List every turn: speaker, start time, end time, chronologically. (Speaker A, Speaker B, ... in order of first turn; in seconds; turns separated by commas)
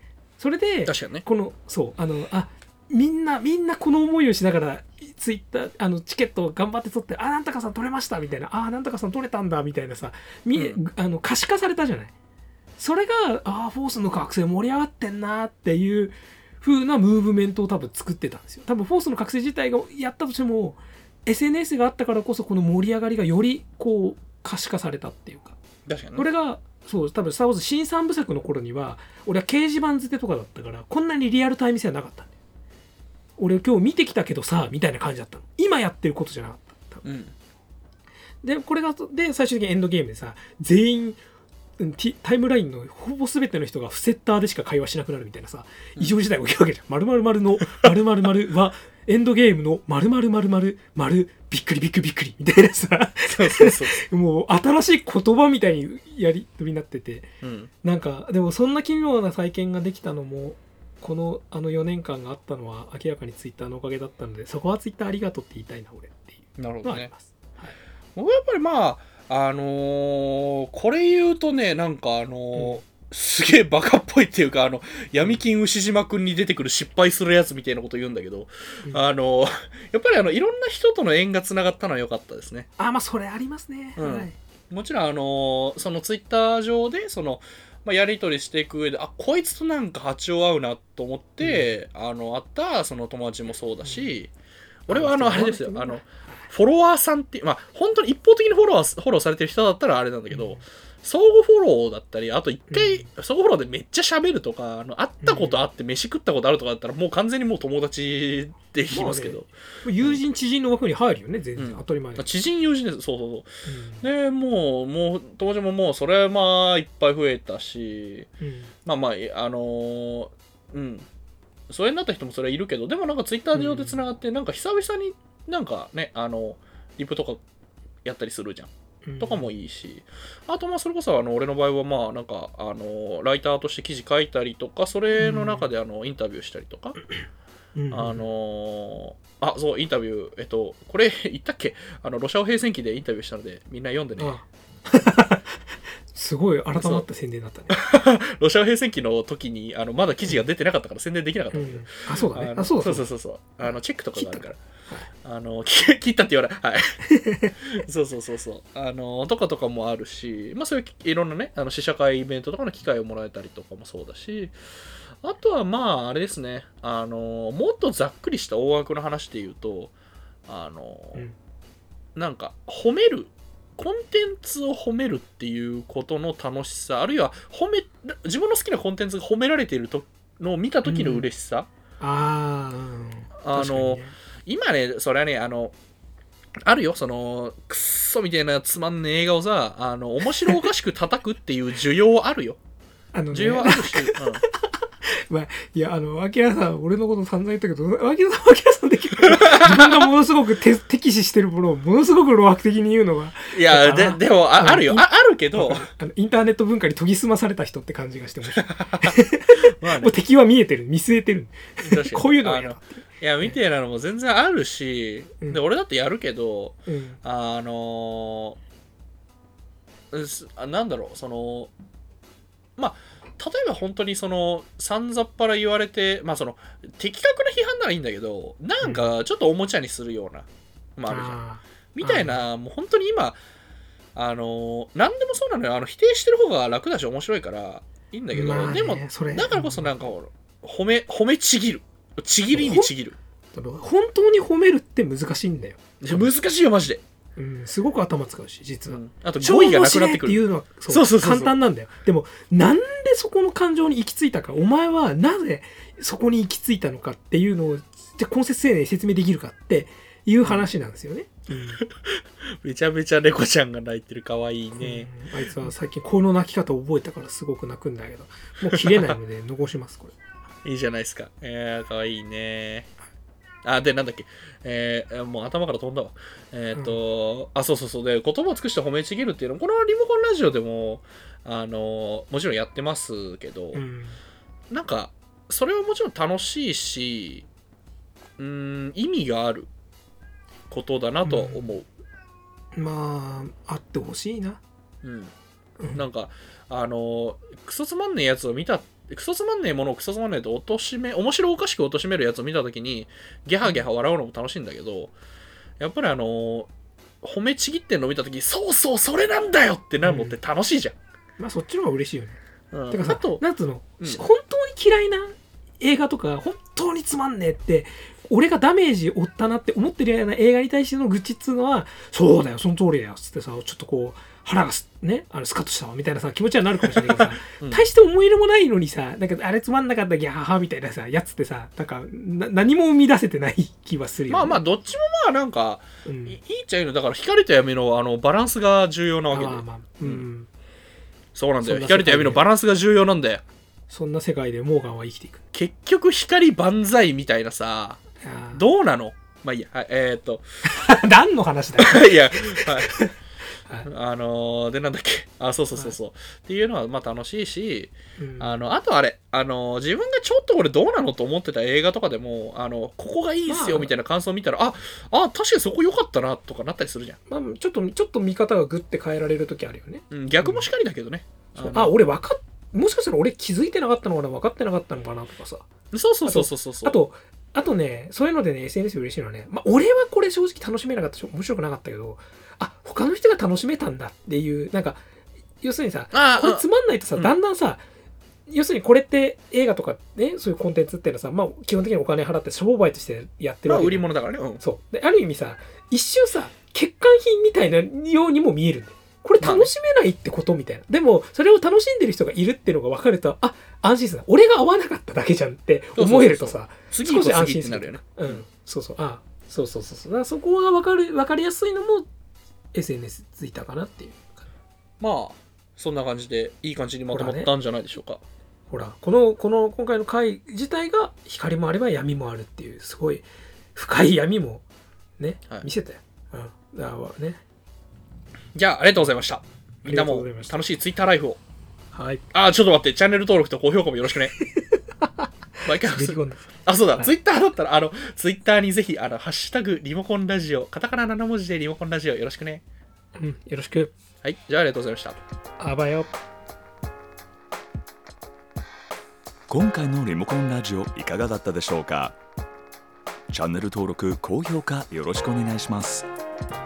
Speaker A: 0.4-12.1, Speaker B: 0.8-1.2, Speaker B: 10.5-10.8, Speaker A: 12.8-25.6, Speaker B: 25.9-26.3, Speaker A: 26.1-32.3, Speaker A: 33.4-37.0, Speaker B: 37.0-37.3, Speaker A: 38.4-41.2, Speaker A: 41.8-57.3, Speaker B: 53.3-54.0, Speaker B: 57.4-57.7, Speaker A: 57.8-67.8, Speaker B: 66.6-67.1, Speaker B: 68.2-82.7, Speaker A: 72.5-72.8, Speaker A: 82.8-84.3, Speaker B: 84.0-94.3, Speaker A: 91.4-91.7, Speaker A: 93.8-94.1, Speaker B: 94.9-109.5, Speaker A: 94.9-96.5, Speaker A: 100.3-100.6, Speaker A: 102.7-103.1, Speaker A: 105.2-105.6, Speaker A: 108.9-112.3, Speaker B: 111.6-113.5, Speaker A: 113.7-114.0, Speaker B: 114.0-118.3, Speaker A: 118.4-118.7, Speaker B: 118.8-121.1, Speaker B: 121.7-127.4, Speaker A: 123.5-124.0, Speaker B: 128.0-137.0, Speaker A: 129.1-129.5, Speaker A: 135.1-135.7, Speaker A: 137.8-138.2, Speaker B: 137.9-144.3, Speaker A: 144.2-147.8, Speaker B: 146.7-147.0, Speaker B: 147.7-154.6, Speaker A: 151.5-153.1, Speaker A: 154.2-155.1, Speaker B: 155.2-157.0, Speaker A: 157.1-157.8, Speaker B: 157.6-164.5, Speaker B: 165.2-169.9, Speaker B: 170.5-171.2, Speaker B: 172.2-181.7, Speaker A: 180.8-181.2, Speaker A: 182.0-184.1, Speaker B: 183.4-185.7, Speaker B: 186.6-192.6, Speaker A: 193.1-213.5, Speaker B: 193.3-194.4, Speaker B: 199.2-200.1, Speaker B: 203.5-205.9, Speaker B: 208.5-209.2, Speaker B: 209.7-210.1, Speaker B: 211.8-218.6, Speaker A: 216.9-217.2, Speaker B: 220.1-221.7, Speaker B: 222.8-231.4, Speaker A: 228.8-229.1, Speaker A: 231.1-232.4, Speaker B: 231.9-233.4, Speaker B: 234.1-243.2, Speaker A: 238.3-239.9, Speaker A: 242.5-242.9, Speaker A: 243.5-246.3, Speaker B: 246.0-247.0, Speaker A: 247.4-261.8, Speaker B: 248.9-251.5, Speaker B: 260.4-260.7, Speaker B: 261.8-265.1, Speaker A: 264.7-270.1, Speaker B: 268.7-269.1, Speaker B: 270.6-272.9, Speaker B: 273.6-283.8, Speaker A: 276.7-277.0, Speaker A: 283.7-284.2, Speaker B: 284.7-287.5, Speaker B: 288.4-289.7, Speaker B: 290.7-291.9, Speaker A: 291.2-291.7, Speaker A: 292.7-294.6, Speaker B: 295.0-295.3, Speaker B: 295.9-305.1, Speaker B: 305.8-306.7, Speaker B: 307.2-310.9, Speaker A: 310.0-310.4, Speaker A: 311.4-312.4, Speaker B: 312.7-313.4, Speaker A: 312.9-334.6, Speaker B: 326.8-327.8, Speaker B: 334.3-340.2, Speaker A: 336.0-336.4, Speaker A: 339.3-340.5, Speaker B: 341.3-343.4, Speaker A: 341.6-342.4, Speaker A: 343.9-345.4, Speaker B: 345.5-348.0, Speaker A: 348.2-348.6, Speaker B: 348.5-350.4, Speaker A: 350.6-353.1, Speaker B: 351.8-353.0, Speaker B: 353.8-367.2, Speaker A: 358.2-358.6, Speaker A: 363.5-363.9, Speaker A: 367.3-370.7, Speaker B: 370.1-371.9, Speaker A: 371.6-375.7, Speaker B: 375.9-377.0, Speaker A: 376.2-385.0, Speaker A: 385.6-387.8, Speaker B: 386.1-386.6, Speaker A: 388.5-412.1, Speaker B: 393.6-394.6, Speaker B: 399.4-399.7, Speaker B: 405.9-408.4, Speaker A: 412.7-414.4, Speaker B: 415.0-418.2, Speaker A: 417.1-417.5, Speaker A: 418.7-424.6, Speaker A: 425.2-427.4, Speaker B: 428.5-431.4, Speaker A: 429.8-430.5, Speaker A: 431.9-432.2, Speaker B: 432.3-434.3, Speaker A: 434.4-437.1, Speaker B: 435.6-442.6, Speaker A: 443.2-443.9, Speaker B: 444.2-445.2, Speaker A: 445.6-446.1, Speaker C: 449.5-452.1, Speaker C: 453.3-456.0